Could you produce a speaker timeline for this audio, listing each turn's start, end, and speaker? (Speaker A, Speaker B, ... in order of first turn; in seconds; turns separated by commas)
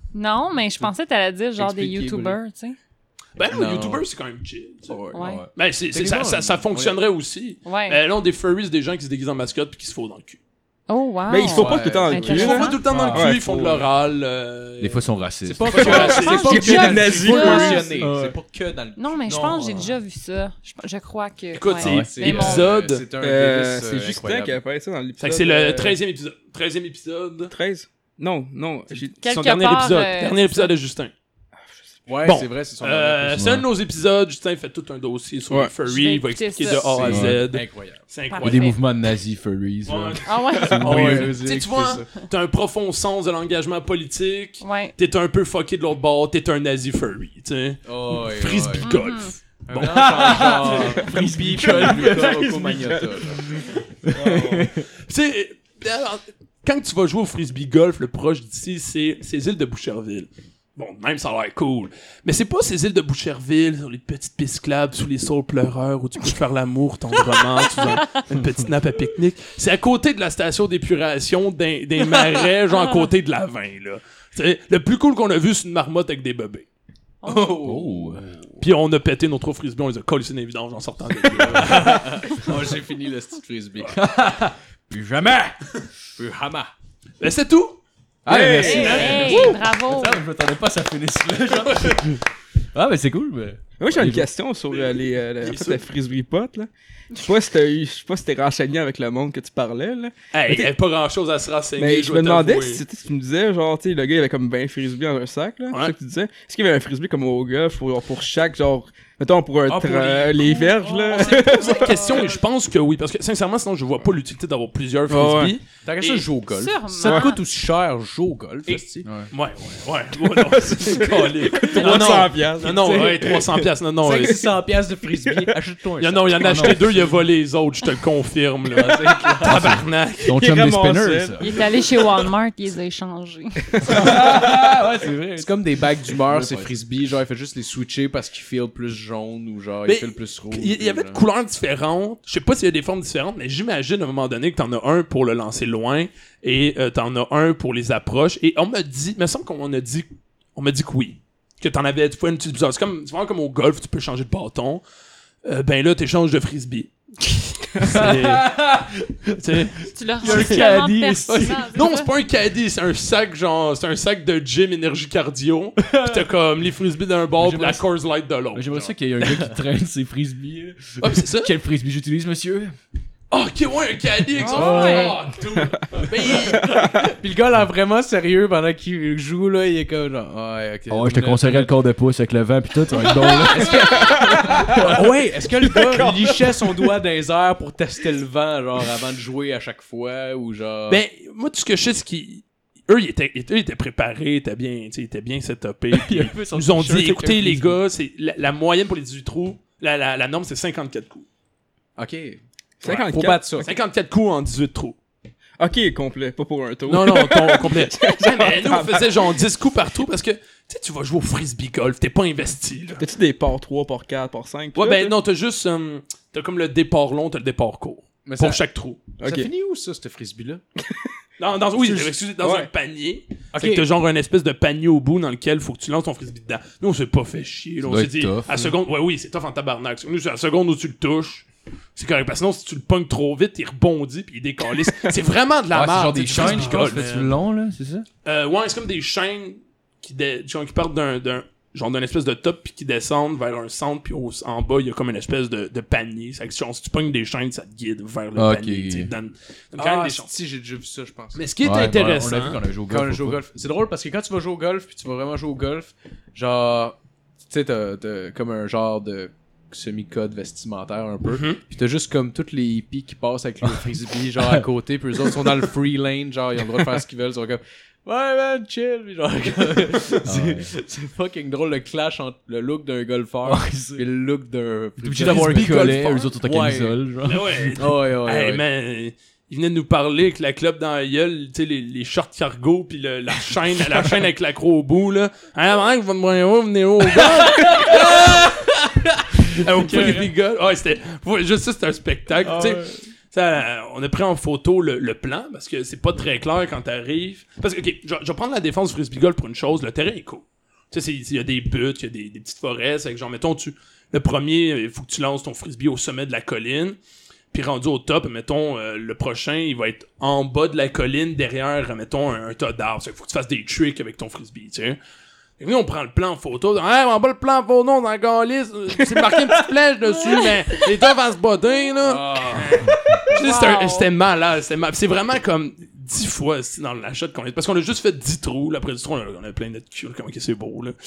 Speaker A: 0.1-2.8, Speaker B: 1.6-2.4, Speaker C: 3.4-10.4, Speaker B: 3.4-4.0, Speaker B: 4.9-5.4, Speaker A: 5.1-5.5, Speaker D: 5.2-5.5, Speaker B: 5.9-7.0, Speaker A: 7.7-8.0, Speaker A: 10.9-12.8, Speaker E: 11.3-13.9, Speaker B: 11.4-12.4, Speaker C: 12.2-15.1, Speaker D: 12.8-13.3, Speaker D: 14.8-16.0, Speaker B: 15.5-19.9, Speaker C: 15.7-16.9, Speaker A: 15.7-17.9, Speaker E: 15.8-18.0, Speaker D: 18.0-18.4, Speaker A: 19.0-22.7, Speaker C: 21.5-23.1, Speaker D: 21.8-22.1, Speaker B: 21.8-24.6, Speaker E: 23.2-26.0, Speaker C: 25.2-27.5, Speaker E: 27.5-29.2, Speaker A: 29.2-30.7, Speaker C: 29.2-31.1, Speaker B: 32.1-33.5, Speaker C: 32.2-38.8, Speaker D: 33.4-33.7, Speaker A: 35.8-37.0, Speaker B: 36.8-38.0, Speaker D: 37.0-37.5, Speaker A: 38.3-38.8, Speaker D: 38.3-41.4, Speaker C: 39.9-50.9, Speaker A: 40.2-41.2, Speaker B: 40.8-42.1, Speaker A: 44.6-45.0, Speaker B: 47.9-48.9, Speaker A: 48.8-49.4, Speaker B: 49.7-53.4, Speaker D: 49.8-52.5, Speaker E: 51.0-53.2, Speaker D: 53.4-54.8, Speaker E: 54.1-54.7, Speaker C: 55.0-76.7, Speaker A: 77.2-77.5, Speaker B: 77.2-78.6, Speaker D: 77.6-78.2, Speaker C: 78.6-82.1, Speaker D: 81.4-81.8, Speaker B: 81.5-84.0, Speaker D: 83.9-85.6, Speaker B: 86.2-86.7, Speaker C: 87.2-87.8, Speaker D: 88.2-92.2, Speaker E: 88.3-89.5, Speaker B: 88.3-89.6, Speaker C: 88.6-89.5, Speaker A: 88.7-90.2, Speaker C: 91.7-92.0, Speaker D: 92.7-94.3, Speaker E: 93.8-100.7, Speaker C: 94.7-95.8, Speaker C: 100.3-102.8, Speaker E: 101.8-112.1, Speaker C: 109.7-116.3, Speaker A: 111.1-112.0, Speaker E: 115.1-115.5, Speaker B: 115.8-119.1, Speaker A: 116.5-117.4, Speaker C: 118.7-124.5, Speaker D: 119.0-119.3, Speaker E: 120.3-125.5, Speaker B: 121.8-122.2, Speaker B: 124.0-127.2, Speaker C: 126.0-130.3, Speaker D: 126.4-126.8, Speaker B: 128.7-129.8, Speaker D: 129.4-131.5, Speaker E: 130.2-132.2, Speaker A: 131.4-134.0, Speaker D: 133.8-136.7, Speaker B: 134.2-134.5, Speaker B: 135.4-141.2, Speaker C: 139.9-154.8, Speaker C: 155.4-158.6, Speaker D: 157.8-159.6, Speaker C: 159.4-160.7, Speaker A: 159.9-162.1, Speaker D: 160.2-161.7, Speaker C: 161.3-168.9, Speaker D: 165.8-166.2, Speaker D: 167.4-167.8, Speaker D: 168.5-172.8, Speaker C: 171.0-171.5, Speaker C: 173.3-176.9, Speaker A: 174.4-175.2, Speaker D: 174.5-175.0, Speaker B: 174.6-175.1, Speaker B: 176.3-181.8, Speaker E: 176.6-176.9, Speaker D: 180.9-184.9, Speaker B: 183.4-191.0, Speaker E: 184.0-184.9, Speaker E: 185.7-186.9, Speaker C: 190.9-201.2, Speaker D: 195.9-197.8, Speaker B: 202.0-203.7, Speaker E: 202.8-203.6, Speaker C: 203.6-205.0, Speaker E: 205.6-209.2, Speaker C: 206.9-213.0, Speaker E: 213.0-215.2, Speaker C: 214.8-219.0, Speaker B: 218.2-218.6, Speaker B: 219.2-220.6, Speaker E: 219.2-219.5, Speaker C: 221.4-237.3, Speaker E: 221.8-222.7, Speaker B: 223.5-223.9, Speaker D: 227.8-228.7, Speaker D: 235.7-238.1, Speaker C: 238.2-250.3, Speaker D: 248.4-249.1, Speaker B: 249.8-251.4, Speaker C: 251.3-252.6, Speaker D: 251.6-253.4, Speaker B: 252.9-277.0, Speaker C: 261.3-261.6, Speaker D: 270.2-270.7, Speaker D: 273.5-274.0, Speaker D: 275.0-277.7, Speaker C: 275.3-276.2, Speaker C: 277.2-288.7, Speaker B: 277.8-278.6, Speaker D: 287.7-288.4, Speaker B: 287.7-288.5, Speaker C: 289.4-307.0, Speaker D: 289.9-290.2, Speaker D: 292.5-292.8, Speaker C: 307.5-315.0, Speaker C: 315.6-330.9, Speaker B: 322.0-322.9, Speaker A: 323.3-324.1